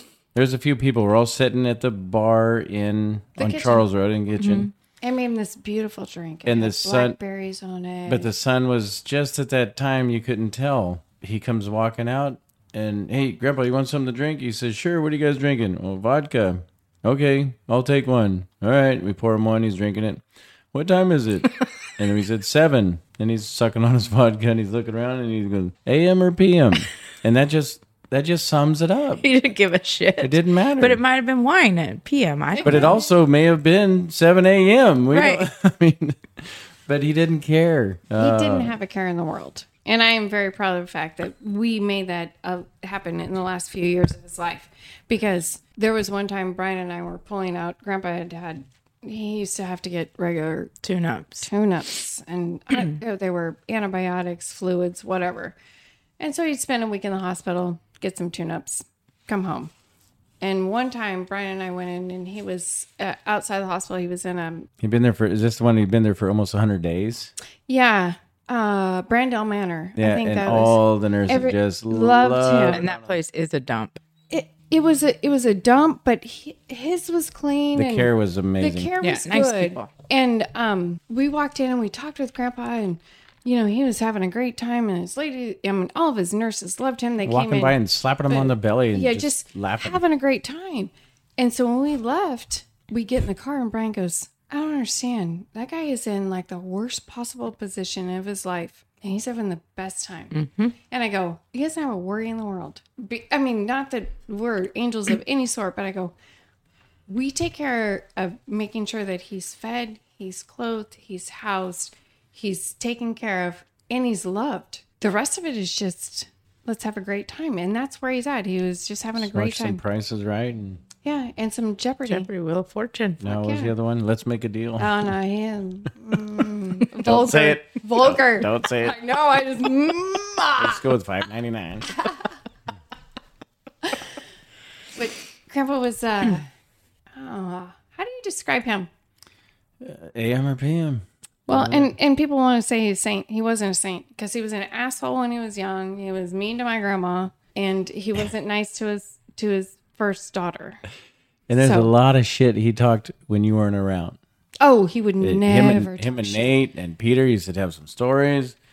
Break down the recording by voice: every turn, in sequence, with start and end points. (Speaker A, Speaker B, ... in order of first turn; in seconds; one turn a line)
Speaker A: 0.3-4.7
Speaker B: 3.4-3.8
Speaker C: 4.4-4.7
Speaker B: 5.0-8.3
Speaker A: 6.5-7.2
Speaker A: 8.1-29.2
Speaker C: 29.2-33.0
Speaker A: 30.2-31.0
Speaker B: 32.5-33.1
Speaker A: 32.6-38.7
Speaker C: 35.1-35.4
Speaker B: 38.2-50.7
Speaker C: 50.8-51.5
Speaker B: 51.4-55.5
Speaker B: 56.2-59.7
Speaker B: 60.4-64.7
Speaker A: 64.8-67.3
Speaker B: 67.7-72.8
Speaker A: 70.0-73.2
Speaker C: 72.7-74.0
Speaker B: 74.3-87.8
Speaker A: 77.7-78.9
Speaker C: 79.0-79.9
Speaker A: 87.2-90.0
Speaker B: 88.3-100.3
Speaker C: 100.3-100.7
Speaker B: 100.9-106.1
Speaker B: 107.1-119.8
Speaker A: 119.2-120.8
Speaker B: 121.0-122.3
Speaker C: 122.1-123.2
Speaker A: 123.2-125.0
Speaker B: 123.2-123.7
Speaker B: 124.8-130.8
Speaker A: 127.0-128.9
Speaker A: 130.6-132.0
Speaker B: 132.0-132.3
Speaker B: 134.9-136.5
Speaker B: 137.1-138.9
Speaker A: 139.8-141.9
Speaker B: 141.5-150.8
Speaker A: 151.5-154.2
Speaker B: 151.6-151.9
Speaker B: 154.6-156.5
Speaker A: 155.2-158.6